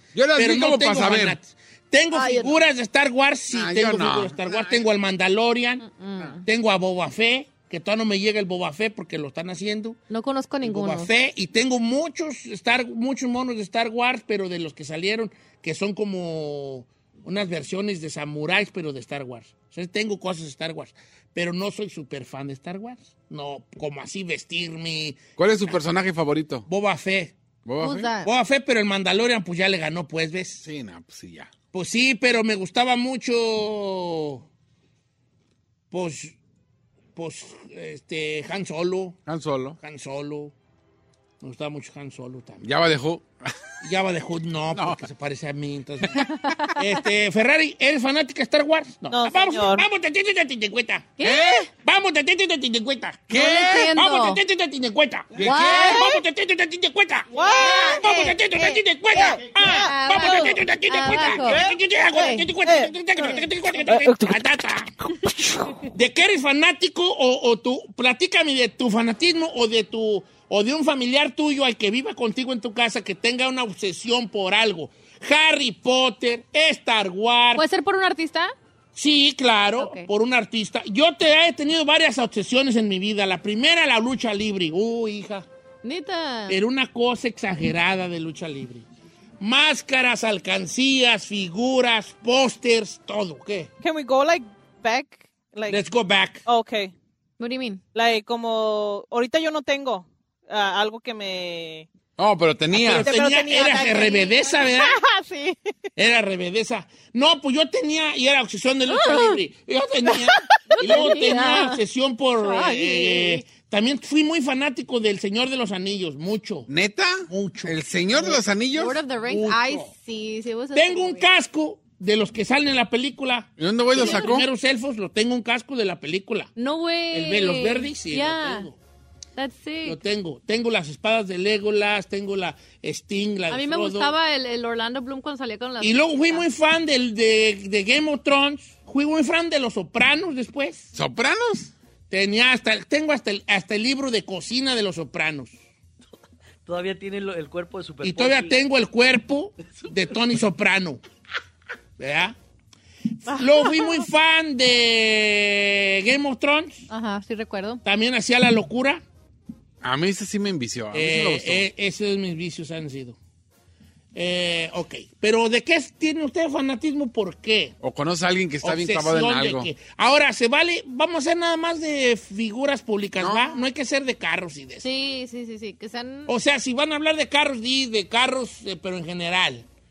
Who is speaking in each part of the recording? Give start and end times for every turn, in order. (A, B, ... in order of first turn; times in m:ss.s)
0:00.1-0:01.4 A
0:00.3-0:05.9 B
0:02.1-0:02.5 C
0:03.5-0:04.8 A
0:05.8-0:06.4 C
0:06.4-0:10.0 B
0:10.1-0:11.1 C
0:10.6-0:25.2 B
0:25.4-0:26.6 A
0:26.7-0:27.3 B
0:27.6-0:28.1 A
0:27.8-0:28.3 C
0:28.2-0:30.6 B
0:30.6-0:31.5 A
0:31.7-0:34.4 B
0:35.9-0:36.3 B
0:37.2-0:39.2 B
0:39.3-0:39.8 A
0:39.8-0:40.5 B
0:41.4-0:42.6 B
0:42.6-0:43.5 A
0:43.8-0:51.2 B
0:44.7-0:45.0 A
0:49.1-0:49.8 D
0:51.2-0:51.7 C
0:51.2-0:51.6 A
0:51.8-1:04.9 B
0:53.3-0:53.9 A
0:53.3-0:54.4 C
0:55.4-0:56.0 A
0:55.4-0:56.0 C
0:55.6-0:56.2 D
0:57.3-1:00.6 D
0:59.7-1:01.6 C
1:02.2-1:03.3 D
1:05.8-1:17.6 B
1:17.5-1:18.5 C
1:18.9-1:25.5 B
1:19.8-1:20.1 C
1:25.8-1:26.6 C
1:26.5-1:28.8 B
1:29.4-1:33.7 B
1:33.8-1:35.8 D
1:35.7-1:36.4 B
1:36.4-1:36.9 D
1:37.4-1:37.8 C
1:37.9-1:41.9 D
1:42.2-1:43.2 A
1:42.7-1:45.0 B
1:42.9-1:45.6 D
1:46.0-1:56.7 B
1:48.9-1:49.4 C
1:50.7-1:51.8 C
1:50.8-1:51.2 D
1:52.5-1:53.4 D
1:56.7-1:59.0 A
1:57.3-1:58.4 B
1:58.7-2:01.3 C
1:59.2-1:59.9 B
2:00.7-2:06.5 B
2:03.6-2:04.4 A
2:03.9-2:04.4 C
2:06.6-2:08.7 C
2:07.1-2:08.8 B
2:09.4-2:10.0 C
2:09.8-2:14.1 B
2:13.5-2:16.4 C
2:15.8-2:20.9 B
2:21.0-2:21.7 A
2:22.1-2:25.5 B
2:26.6-2:28.6 E
2:28.0-2:31.0 B
2:32.0-2:32.4 B
2:33.3-2:36.9 B
2:33.3-2:34.0 D
2:36.9-2:37.8 C
2:37.8-2:39.0 B
2:39.8-2:41.6 A
2:40.9-2:43.2 B
2:44.1-2:47.7 B
2:47.8-2:49.7 A
2:48.6-2:54.9 B
2:53.2-2:53.6 A
2:54.8-2:56.3 C
2:56.3-2:59.6 B